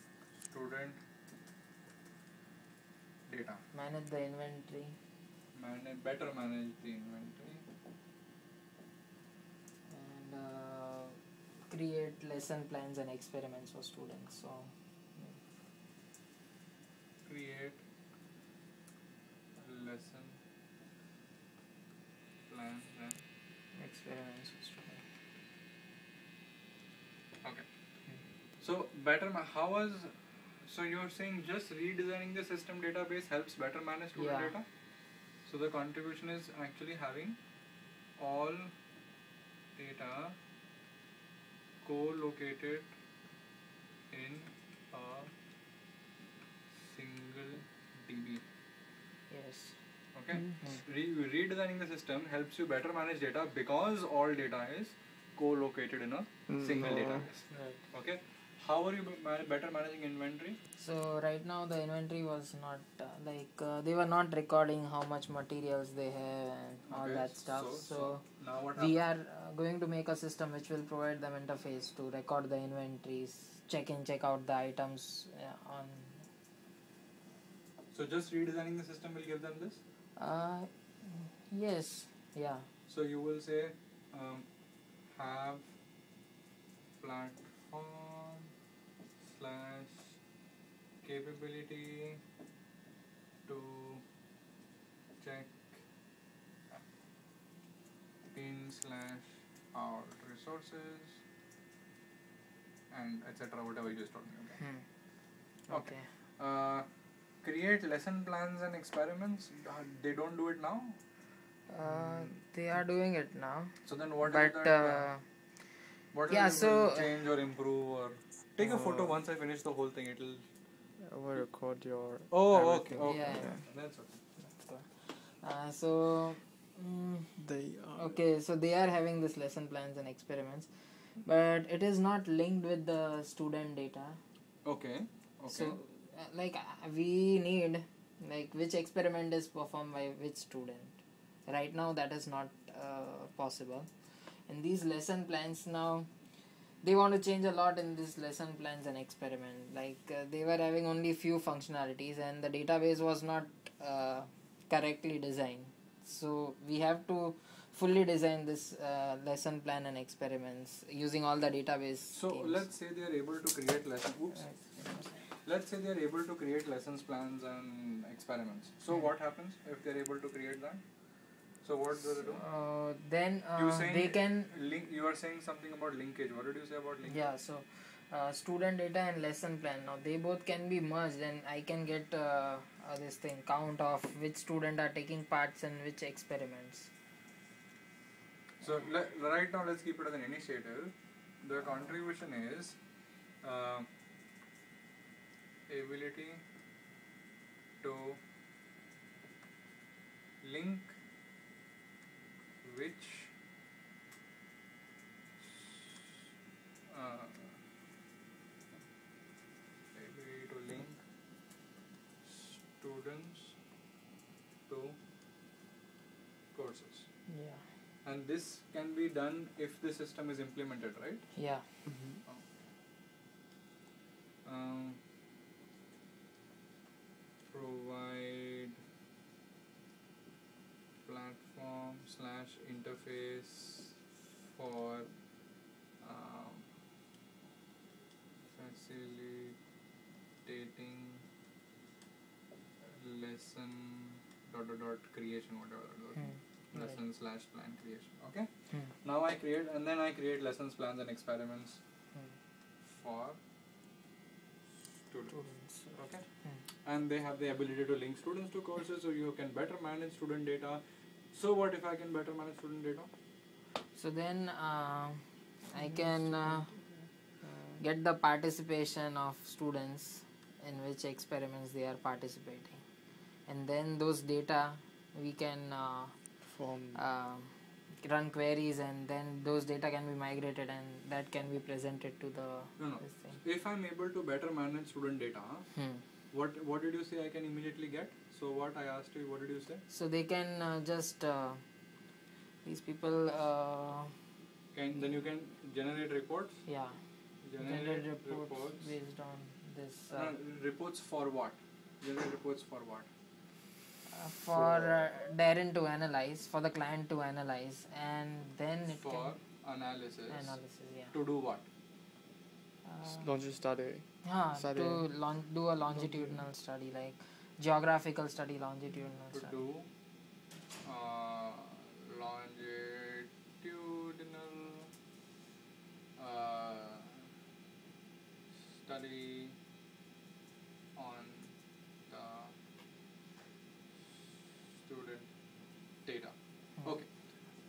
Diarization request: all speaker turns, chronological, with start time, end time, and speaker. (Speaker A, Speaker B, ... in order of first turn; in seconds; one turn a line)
Speaker A: 0.4-1.0
Speaker A: 3.3-3.6
Speaker B: 3.7-5.0
Speaker A: 5.5-7.6
Speaker B: 9.9-15.4
Speaker A: 17.2-17.8
Speaker A: 19.6-20.4
Speaker A: 22.5-23.2
Speaker B: 23.7-25.0
Speaker A: 28.6-34.7
Speaker B: 34.1-34.6
Speaker A: 35.4-37.4
Speaker A: 38.2-38.7
Speaker A: 39.7-40.4
Speaker A: 41.8-42.9
Speaker A: 44.1-45.3
Speaker A: 46.8-48.4
Speaker B: 49.3-49.8
Speaker A: 50.1-60.6
Speaker C: 56.5-57.3
Speaker B: 57.5-57.9
Speaker B: 60.8-76.2
Speaker A: 66.8-69.0
Speaker A: 77.9-79.8
Speaker B: 80.2-82.7
Speaker A: 82.9-84.5
Speaker A: 85.0-85.7
Speaker A: 87.0-88.5
Speaker A: 89.2-90.2
Speaker A: 91.0-92.2
Speaker A: 93.5-94.0
Speaker A: 95.2-95.9
Speaker A: 98.3-101.2
Speaker A: 102.9-104.7
Speaker B: 104.6-106.1
Speaker A: 105.7-111.0
Speaker B: 111.7-117.2
Speaker C: 111.8-112.8
Speaker A: 113.8-115.2
Speaker A: 116.1-120.4
Speaker C: 118.6-119.2
Speaker C: 121.0-123.6
Speaker A: 122.3-124.2
Speaker B: 123.0-134.2
Speaker C: 127.4-128.2
Speaker A: 134.6-135.8
Speaker B: 135.5-162.7
Speaker A: 162.1-170.8
Speaker B: 164.3-165.3
Speaker A: 171.6-172.4
Speaker B: 172.2-174.5
Speaker A: 173.5-177.2
Speaker B: 177.0-186.9
Speaker A: 188.6-192.8
Speaker A: 193.4-193.9
Speaker A: 195.7-196.4
Speaker A: 197.8-198.2
Speaker A: 200.4-200.9
Speaker A: 202.6-203.3
Speaker A: 205.4-205.7
Speaker A: 206.9-207.6
Speaker A: 209.9-211.0
Speaker A: 212.2-213.6
Speaker A: 214.7-215.0
Speaker A: 216.5-217.3
Speaker B: 217.3-217.7
Speaker A: 218.0-221.5
Speaker B: 221.3-221.8
Speaker C: 221.8-222.2
Speaker A: 222.2-222.7
Speaker A: 224.4-225.0
Speaker A: 227.4-228.8
Speaker A: 231.0-234.0
Speaker A: 234.5-235.1
Speaker A: 236.0-236.7
Speaker A: 238.4-239.6
Speaker A: 240.4-241.2
Speaker A: 242.8-251.8
Speaker B: 246.2-247.0
Speaker A: 252.9-253.4
Speaker A: 255.1-263.1
Speaker B: 255.3-256.6
Speaker B: 263.9-283.4
Speaker C: 265.8-267.8
Speaker C: 276.5-277.0
Speaker A: 282.8-285.8
Speaker B: 285.7-286.0
Speaker A: 286.3-289.8
Speaker B: 289.9-291.6
Speaker B: 292.6-294.2
Speaker A: 294.7-296.7
Speaker B: 296.6-300.4
Speaker A: 297.4-298.9
Speaker A: 300.1-303.1
Speaker B: 304.1-309.6
Speaker A: 304.5-305.0
Speaker A: 308.9-311.7
Speaker B: 310.3-311.1
Speaker B: 312.8-313.5
Speaker C: 313.0-315.3
Speaker B: 314.2-319.7
Speaker C: 316.0-316.4
Speaker A: 319.3-319.9
Speaker A: 320.8-324.9
Speaker A: 326.2-327.2
Speaker A: 328.7-329.6
Speaker A: 330.9-331.5
Speaker A: 332.1-332.5
Speaker A: 334.8-335.3
Speaker A: 336.0-337.3